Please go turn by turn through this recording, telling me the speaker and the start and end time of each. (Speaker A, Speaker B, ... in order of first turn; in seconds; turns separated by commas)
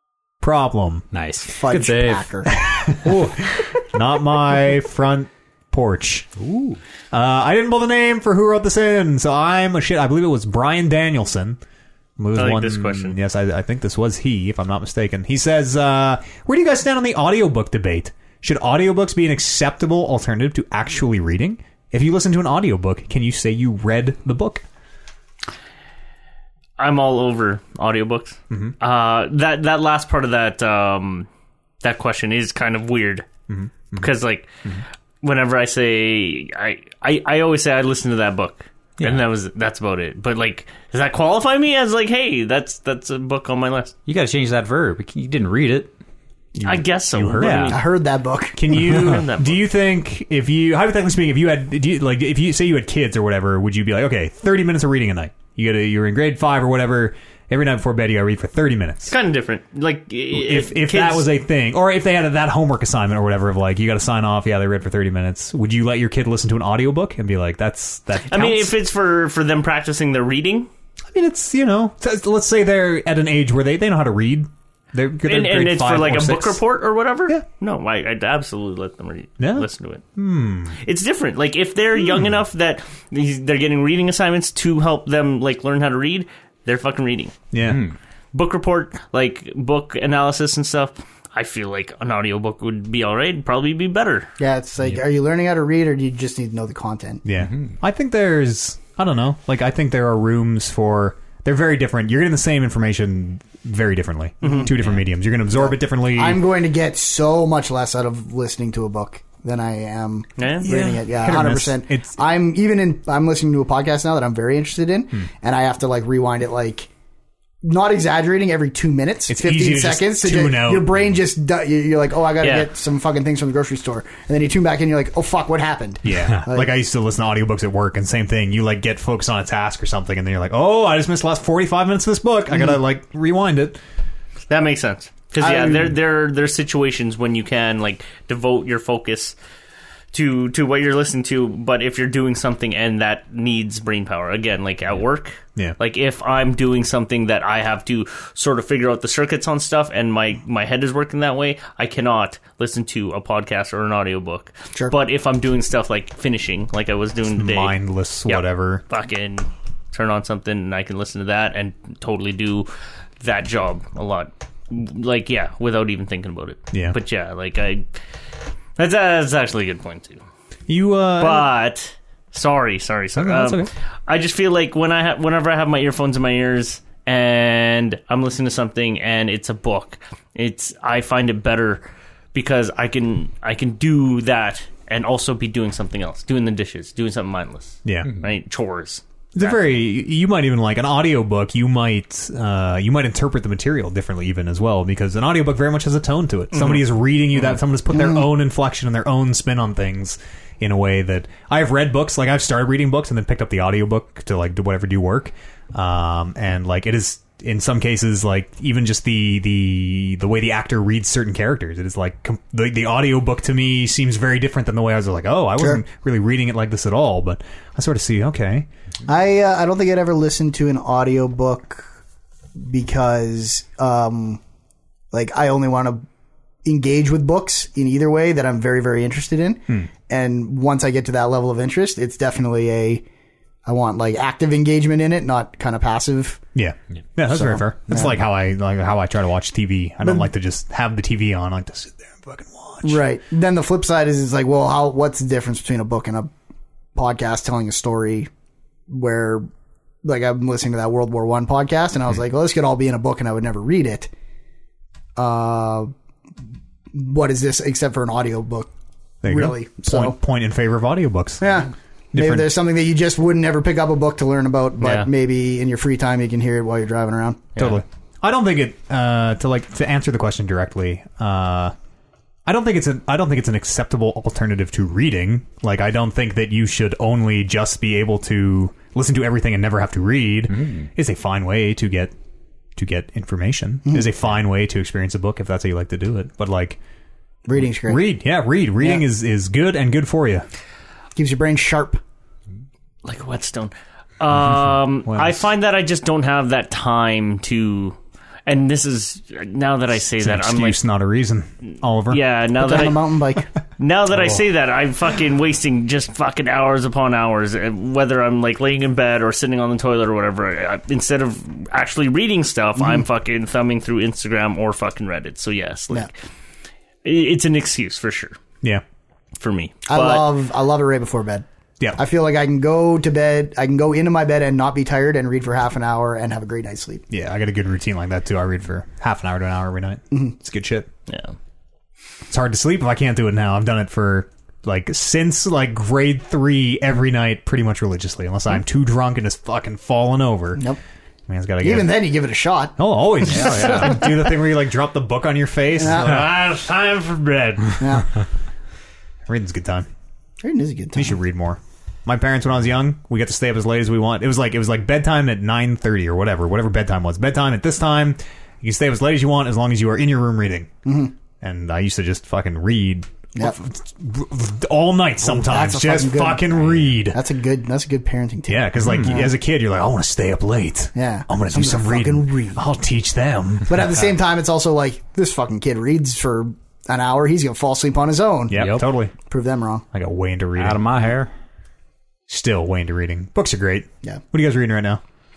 Speaker A: 0.4-1.1, Speaker B: 1.1-2.3, Speaker C: 1.5-2.7, Speaker A: 2.6-3.2, Speaker B: 2.9-3.5, Speaker A: 3.8-6.3, Speaker B: 6.4-6.8, Speaker A: 7.1-11.6, Speaker A: 12.2-24.6, Speaker D: 12.3-13.2, Speaker D: 26.8-31.3, Speaker A: 28.5-28.8, Speaker D: 31.8-33.3, Speaker A: 33.5-34.1, Speaker D: 34.0-34.5, Speaker D: 35.2-43.9, Speaker B: 44.0-45.9, Speaker A: 46.5-47.9, Speaker D: 46.6-47.9, Speaker B: 47.4-47.7, Speaker C: 47.6-48.8, Speaker A: 48.5-59.1, Speaker D: 48.8-49.6, Speaker D: 59.1-61.3, Speaker A: 60.3-68.7, Speaker D: 68.3-70.7, Speaker A: 71.1-76.6, Speaker D: 75.2-80.0, Speaker A: 79.4-80.8, Speaker D: 80.8-87.3, Speaker A: 87.5-87.8, Speaker B: 87.6-87.9, Speaker D: 88.3-94.3, Speaker C: 94.4-97.2, Speaker A: 97.2-106.4, Speaker B: 97.4-97.7, Speaker C: 104.4-104.7, Speaker C: 105.5-116.9, Speaker D: 110.4-110.7, Speaker A: 110.6-112.1, Speaker C: 117.6-126.7, Speaker A: 119.3-121.0, Speaker D: 122.4-122.7, Speaker A: 126.0-133.8, Speaker B: 126.1-126.4, Speaker D: 134.5-139.3, Speaker C: 135.4-135.9, Speaker D: 140.1-157.8, Speaker A: 157.3-158.8, Speaker D: 158.3-162.7, Speaker D: 163.2-168.0, Speaker A: 166.7-167.0, Speaker D: 168.8-170.2, Speaker A: 170.7-171.5, Speaker D: 171.2-189.7, Speaker A: 173.2-173.7, Speaker A: 187.8-188.1, Speaker A: 189.3-218.7, Speaker C: 197.9-198.2, Speaker C: 219.1-221.9, Speaker C: 222.6-224.4, Speaker C: 225.1-226.1, Speaker C: 226.6-233.0, Speaker C: 233.7-236.4, Speaker A: 236.5-243.0, Speaker C: 237.3-238.1, Speaker C: 242.8-246.3, Speaker C: 246.9-248.3, Speaker C: 248.9-249.5, Speaker C: 250.0-254.1, Speaker C: 255.2-255.9, Speaker C: 256.9-258.7, Speaker A: 259.2-261.5, Speaker C: 259.2-260.1, Speaker C: 261.4-267.5, Speaker A: 262.1-262.5, Speaker D: 264.8-265.1, Speaker A: 267.6-271.7, Speaker A: 272.4-282.1, Speaker A: 282.8-286.8, Speaker C: 287.4-288.0, Speaker A: 287.8-290.5, Speaker C: 288.8-289.0, Speaker C: 291.1-292.0, Speaker D: 293.0-300.8, Speaker A: 294.5-295.4, Speaker A: 300.2-302.2, Speaker D: 302.1-303.1, Speaker C: 302.6-303.5, Speaker D: 303.8-316.1, Speaker A: 304.1-304.4, Speaker D: 317.0-318.4, Speaker D: 319.4-320.3, Speaker C: 319.9-321.4, Speaker C: 322.0-327.0, Speaker A: 327.1-330.9, Speaker D: 331.1-331.3, Speaker A: 332.3-340.6, Speaker A: 341.3-342.1, Speaker C: 341.6-342.8, Speaker A: 342.8-348.0, Speaker B: 343.3-344.0, Speaker C: 345.8-346.3, Speaker C: 347.8-348.1, Speaker A: 349.2-349.9, Speaker C: 350.4-351.2, Speaker A: 350.9-360.7, Speaker C: 360.8-361.1, Speaker A: 361.4-367.2, Speaker C: 365.2-369.3, Speaker A: 368.5-374.0, Speaker C: 370.9-372.6, Speaker C: 373.6-378.6, Speaker A: 378.5-379.1, Speaker B: 378.5-378.8, Speaker C: 379.3-379.8, Speaker A: 379.9-380.9, Speaker B: 380.6-381.3, Speaker A: 382.3-385.0